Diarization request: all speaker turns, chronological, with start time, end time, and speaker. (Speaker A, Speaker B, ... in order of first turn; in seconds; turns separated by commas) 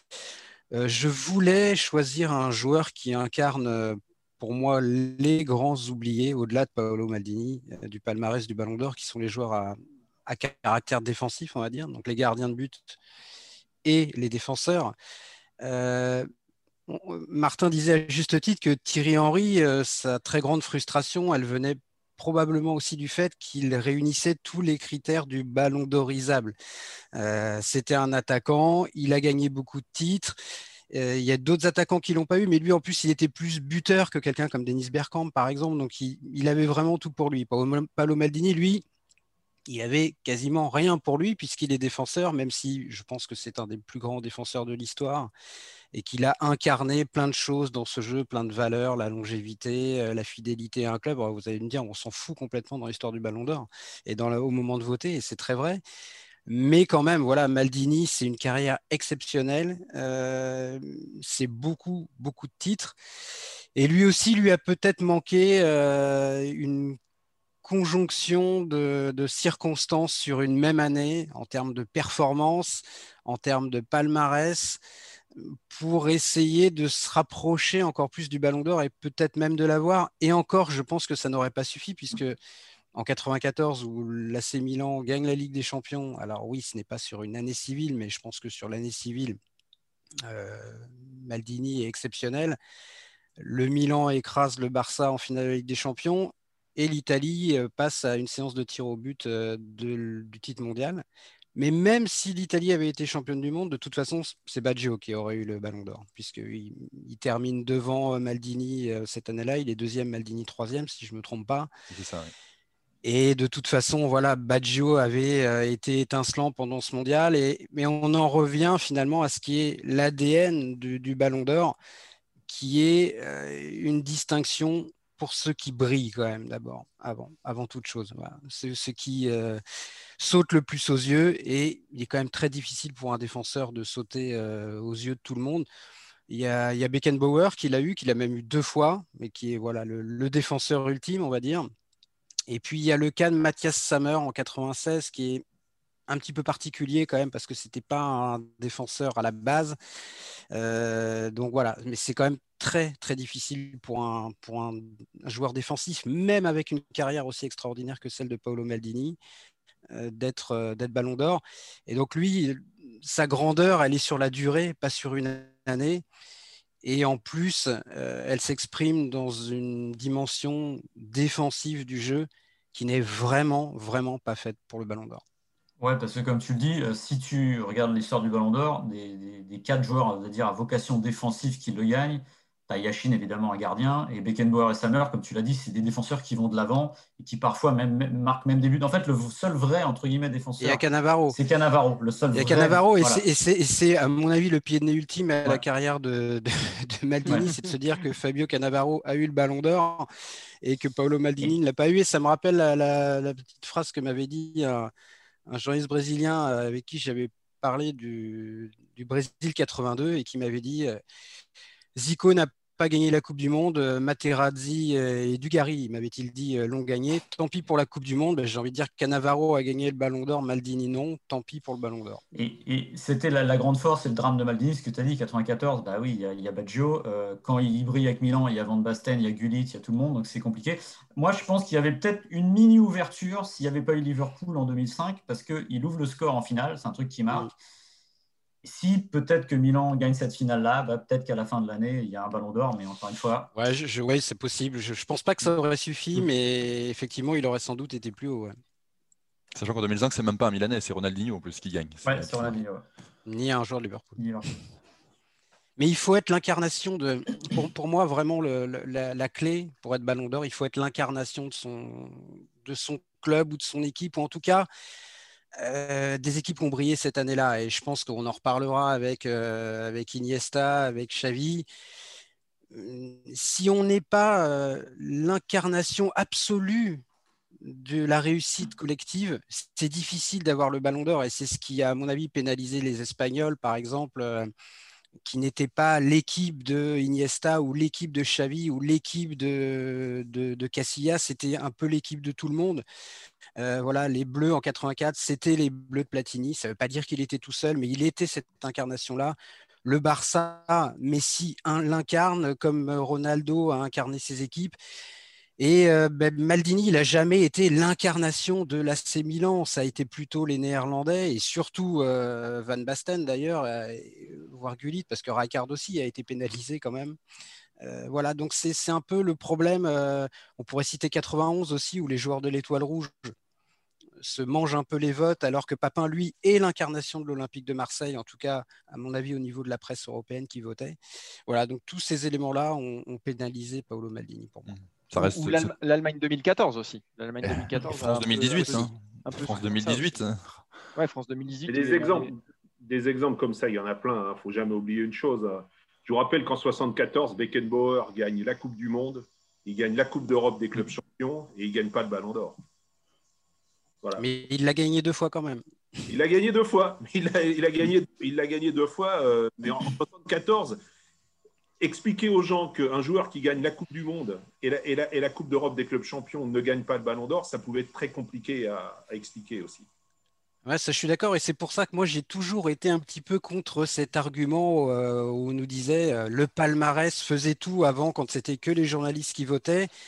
Speaker A: 0.7-12.9, Speaker A: 13.8-14.9, Speaker A: 15.6-16.3, Speaker A: 16.9-26.5, Speaker A: 27.1-30.4, Speaker A: 30.9-38.8, Speaker A: 39.7-45.3, Speaker A: 45.9-55.8, Speaker A: 56.5-63.0, Speaker A: 63.8-67.0, Speaker A: 67.6-74.8, Speaker A: 75.4-82.4, Speaker A: 82.9-89.4, Speaker A: 90.2-92.6, Speaker A: 93.4-101.0, Speaker A: 101.5-111.7, Speaker B: 111.9-112.3, Speaker A: 113.0-121.8, Speaker A: 122.5-129.6, Speaker A: 130.2-135.7, Speaker A: 136.3-141.7, Speaker A: 142.5-145.4, Speaker A: 146.1-149.8, Speaker A: 150.5-159.2, Speaker A: 159.9-166.0, Speaker A: 166.8-175.2, Speaker C: 175.8-193.2, Speaker A: 190.6-191.4, Speaker A: 192.3-200.1, Speaker C: 197.3-197.5, Speaker A: 200.6-204.9, Speaker A: 205.5-211.0, Speaker A: 211.9-222.2, Speaker C: 222.3-237.5, Speaker C: 238.6-243.5, Speaker A: 243.5-248.6, Speaker B: 249.5-252.6, Speaker C: 252.1-252.8, Speaker A: 253.2-254.2, Speaker C: 254.2-254.5, Speaker A: 255.8-264.7, Speaker A: 265.6-271.7, Speaker A: 272.7-277.0, Speaker A: 277.6-284.5, Speaker A: 285.2-292.8, Speaker A: 293.6-304.8, Speaker A: 305.6-317.2, Speaker A: 317.8-323.3, Speaker A: 324.2-334.8, Speaker B: 334.7-335.7, Speaker D: 335.1-340.1, Speaker B: 337.4-340.6, Speaker D: 340.9-342.3, Speaker E: 341.7-352.6, Speaker A: 354.2-355.6, Speaker E: 356.1-360.8, Speaker E: 361.8-369.9, Speaker A: 370.6-379.9